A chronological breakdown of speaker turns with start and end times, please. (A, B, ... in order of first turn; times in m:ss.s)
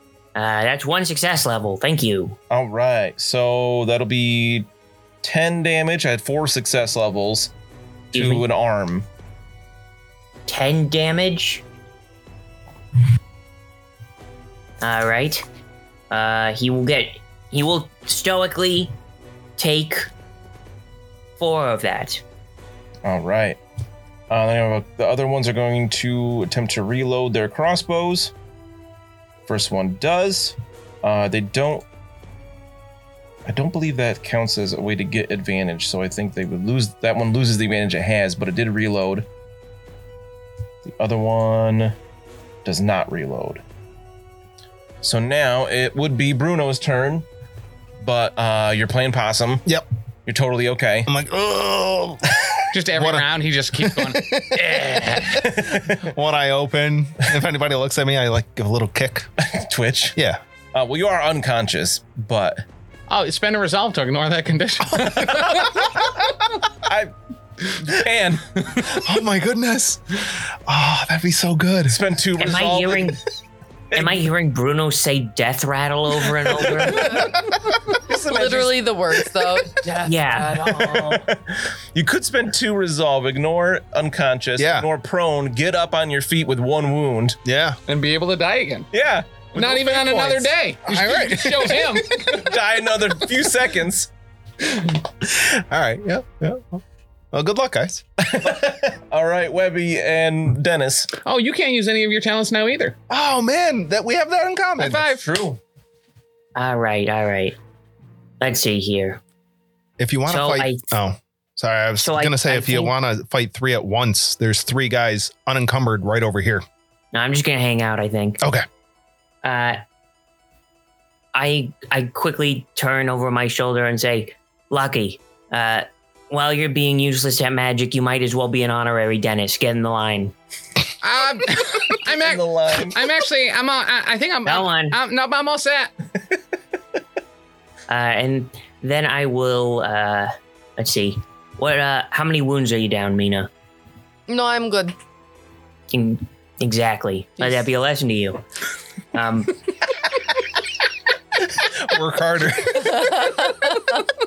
0:00.4-0:02.4 A
0:02.5-0:04.7 B
0:05.2-0:07.5 B
0:08.1-0:08.5 A
0:08.1-0:09.1 B
0:10.5-0:11.6 A
0:14.8-0:15.4 A
0:16.1-0:19.0 A
0:19.6-0:20.1 A
0:21.4-0:22.2 A
0:23.0-0:23.6 B
0:24.3-0:28.3 B
0:29.5-0:31.9 B
0:33.4-0:39.3 B
0:40.8-0:42.0 B
0:42.6-0:43.6 B
0:45.0-0:47.3 B
0:48.0-0:49.6 B
0:50.3-0:51.1 B
0:51.1-0:59.3 C
0:52.7-0:55.5 D
0:55.3-0:56.0 B
0:59.4-1:00.2 B
1:00.7-1:02.6 B
1:03.1-1:05.8 D
1:05.1-1:05.8 B
1:06.8-1:09.1 B
1:08.8-1:12.0 C
1:11.9-1:13.2 B
1:12.4-1:13.2 A
1:13.9-1:14.3 B
1:13.9-1:17.3 A
1:16.6-1:17.3 B
1:17.1-1:21.2 E
1:17.5-1:18.7 C
1:17.9-1:18.6 B
1:20.0-1:21.1 A
1:20.6-1:27.4 B
1:24.6-1:24.9 C
1:27.4-1:27.8 C
1:27.9-1:28.9 D
1:28.9-1:30.5 B
1:29.5-1:32.4 D
1:30.9-1:32.5 C
1:32.3-1:34.1 B
1:34.7-1:38.0 C
1:38.2-1:41.1 B
1:41.2-1:43.0 D
1:43.1-1:45.0 C
1:44.8-1:45.2 D
1:45.0-1:45.6 B
1:46.6-1:47.6 A
1:48.4-1:49.2 A
1:50.0-1:56.6 C
1:50.3-1:50.8 A
1:52.0-1:52.9 A
1:57.1-1:58.4 A
1:59.4-1:59.8 A
2:01.3-2:10.3 A
2:11.0-2:15.9 D
2:12.1-2:13.0 B
2:14.5-2:15.0 A
2:17.9-2:23.5 A
2:24.3-2:25.0 E
2:25.9-2:28.4 A
2:29.1-2:29.6 A
2:31.5-2:33.4 C